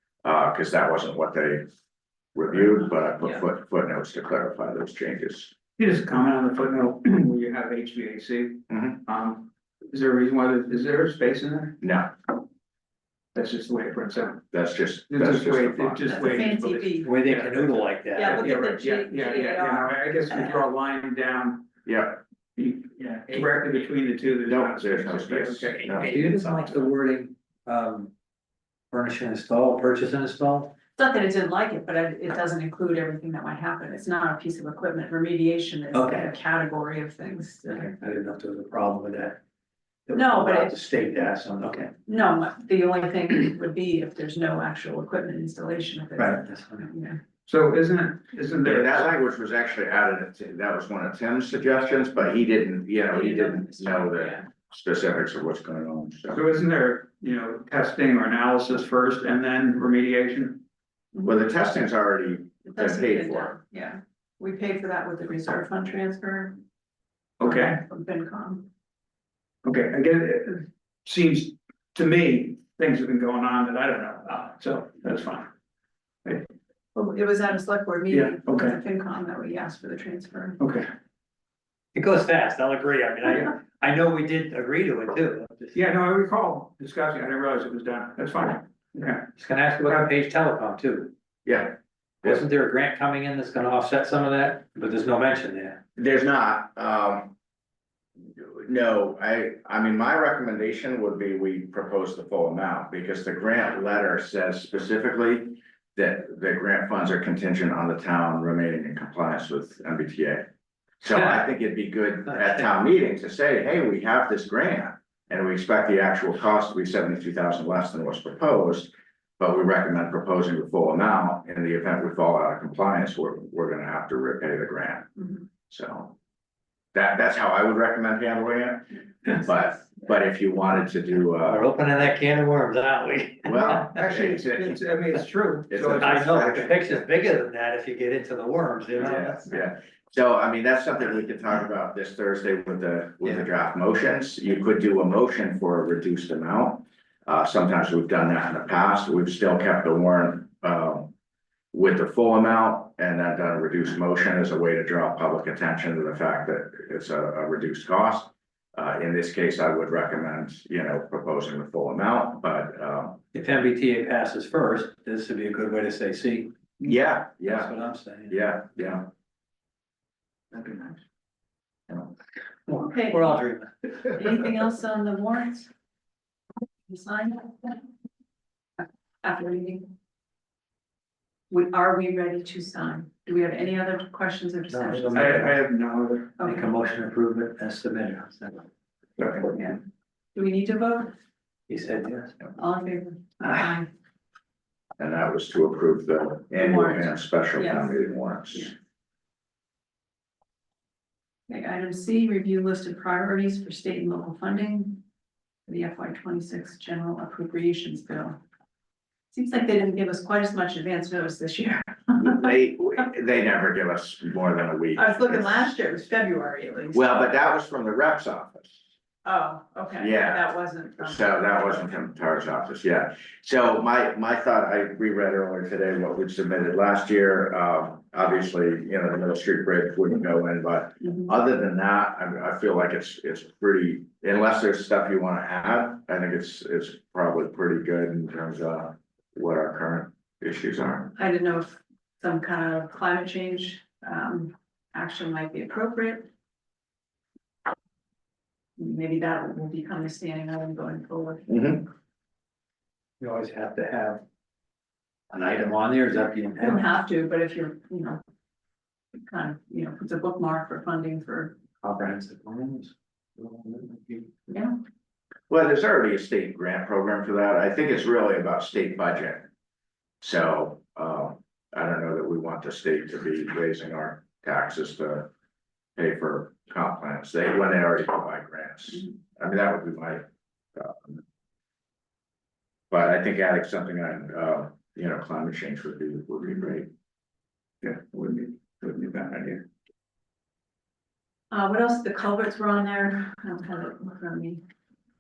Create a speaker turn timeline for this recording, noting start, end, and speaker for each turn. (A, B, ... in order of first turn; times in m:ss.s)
0:00.2-0:01.6 A
0:02.3-0:05.5 A
0:05.8-0:11.8 B
0:08.7-0:09.0 A
0:11.8-0:12.1 A
0:13.3-0:14.4 B
0:14.5-0:16.2 A
0:15.1-0:21.7 B
0:16.1-0:17.1 C
0:17.0-0:18.5 D
0:18.1-0:20.6 C
0:21.8-0:22.2 A
0:22.6-0:26.7 B
0:24.5-0:26.2 A
0:26.0-0:28.1 D
0:28.9-0:30.7 D
0:31.0-0:37.9 C
0:35.9-0:36.2 D
0:37.7-0:39.4 D
0:40.1-0:41.9 D
0:40.1-0:40.8 C
0:42.1-0:47.2 C
0:46.2-0:46.8 D
0:47.5-0:49.2 B
0:48.6-0:56.4 A
0:53.1-0:54.4 C
0:56.3-1:00.6 B
1:01.1-1:01.4 C
1:01.2-1:03.5 A
1:02.7-1:06.6 C
1:07.4-1:07.8 B
1:07.4-1:08.7 C
1:09.6-1:15.5 B
1:16.9-1:20.6 C
1:18.1-1:18.8 B
1:20.6-1:20.9 B
1:21.9-1:25.8 D
1:25.7-1:29.3 B
1:29.4-1:31.1 D
1:31.4-1:32.4 A
1:32.2-1:35.8 D
1:36.0-1:37.3 A
1:38.4-1:50.5 A
1:51.0-2:05.1 A
2:05.7-2:06.2 A
2:06.9-2:11.7 A
2:11.4-2:14.1 D
2:13.4-2:14.8 A
2:14.1-2:16.3 B
2:15.7-2:17.0 A
2:16.0-2:19.5 D
2:19.0-2:31.1 A
2:31.7-2:43.2 A
2:43.3-2:46.5 D
2:46.8-2:47.7 A
2:47.5-2:48.4 D
2:48.3-2:49.0 A
2:50.5-2:50.8 B
2:52.7-2:53.9 D
2:52.8-2:53.4 C
2:54.1-2:55.7 C
2:56.9-2:57.8 C
2:58.8-2:59.9 C
3:01.5-3:05.5 C
3:04.7-3:05.5 D
3:05.1-3:06.3 B
3:06.4-3:06.7 C
3:06.4-3:08.6 D
3:09.2-3:09.5 B
3:09.5-3:09.8 C
3:10.3-3:11.1 C
3:11.7-3:12.3 D
3:12.6-3:13.9 C
3:15.0-3:18.7 A
3:16.6-3:17.9 C
3:21.5-3:25.0 C
3:25.7-3:28.4 C
3:29.3-3:32.4 C
3:32.1-3:35.7 A
3:34.9-3:37.2 C
3:36.9-3:38.8 A
3:39.2-3:41.7 C
3:40.0-3:40.4 A
3:41.0-4:01.1 A
3:51.0-3:51.3 C
4:01.2-4:06.3 C
4:08.8-4:11.4 C
4:11.5-4:11.8 A
4:13.2-4:14.2 D
4:15.3-4:16.8 D
4:16.6-4:18.2 C
4:19.3-4:21.6 C
4:21.8-4:24.3 D
4:24.5-4:24.7 C
4:25.5-4:29.5 A
4:30.2-4:35.3 A
4:36.0-4:40.2 A
4:40.8-4:41.2 A
4:42.9-4:46.9 A
4:47.8-4:49.6 B
4:51.5-4:54.6 C